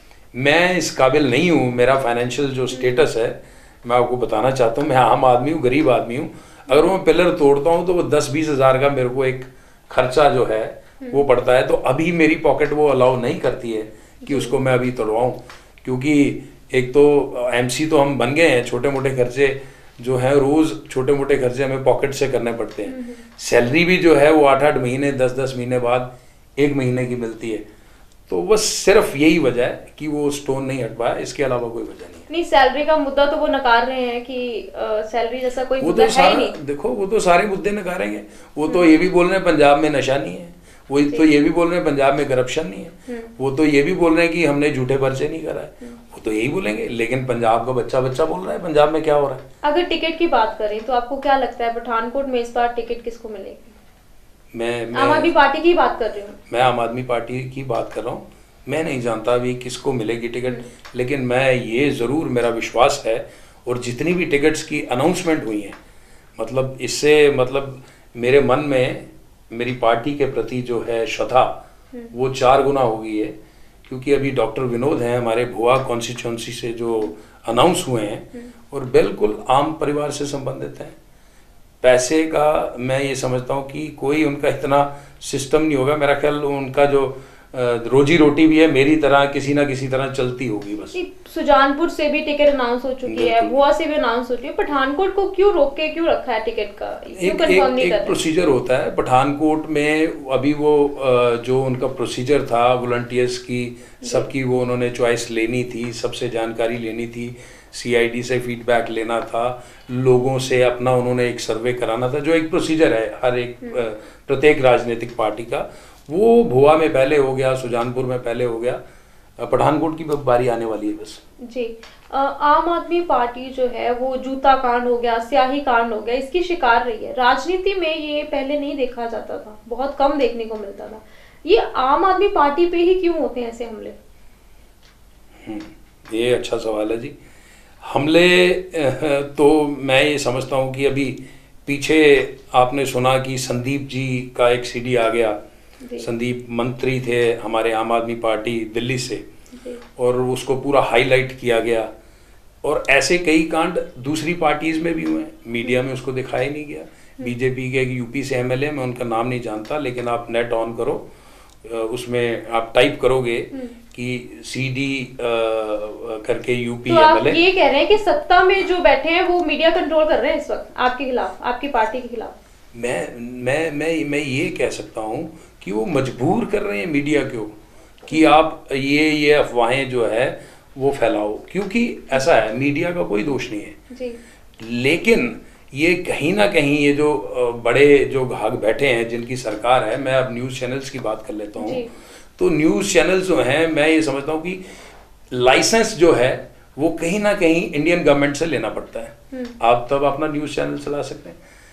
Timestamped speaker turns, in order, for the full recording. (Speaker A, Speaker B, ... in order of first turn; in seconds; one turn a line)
Speaker A: 0.3-27.6
Speaker B: 2.7-3.1
Speaker B: 6.7-6.9
Speaker B: 14.2-14.6
Speaker B: 22.9-23.2
Speaker A: 28.3-32.3
Speaker B: 32.3-36.5
Speaker A: 35.8-49.4
Speaker B: 38.6-38.9
Speaker B: 43.1-43.3
Speaker B: 49.6-53.8
Speaker A: 54.5-55.3
Speaker B: 54.9-56.4
Speaker A: 56.5-65.8
Speaker A: 66.4-71.6
Speaker A: 72.1-73.4
Speaker A: 73.9-81.0
Speaker A: 81.8-91.0
Speaker B: 90.9-98.3
Speaker A: 93.0-93.5
Speaker A: 97.1-118.8
Speaker B: 104.0-104.3
Speaker A: 119.4-121.2
Speaker B: 121.4-134.0
Speaker A: 135.4-137.2
Speaker A: 137.8-145.4
Speaker B: 145.8-146.1
Speaker A: 146.0-149.2
Speaker B: 149.6-149.8
Speaker A: 150.0-151.9
Speaker A: 152.6-161.1
Speaker A: 161.6-167.4
Speaker B: 166.9-172.3
Speaker A: 172.7-177.6
Speaker A: 178.1-183.8
Speaker B: 183.9-184.2
Speaker A: 184.6-191.8
Speaker B: 191.6-191.9
Speaker A: 192.4-194.6
Speaker A: 195.3-201.4
Speaker B: 199.3-199.6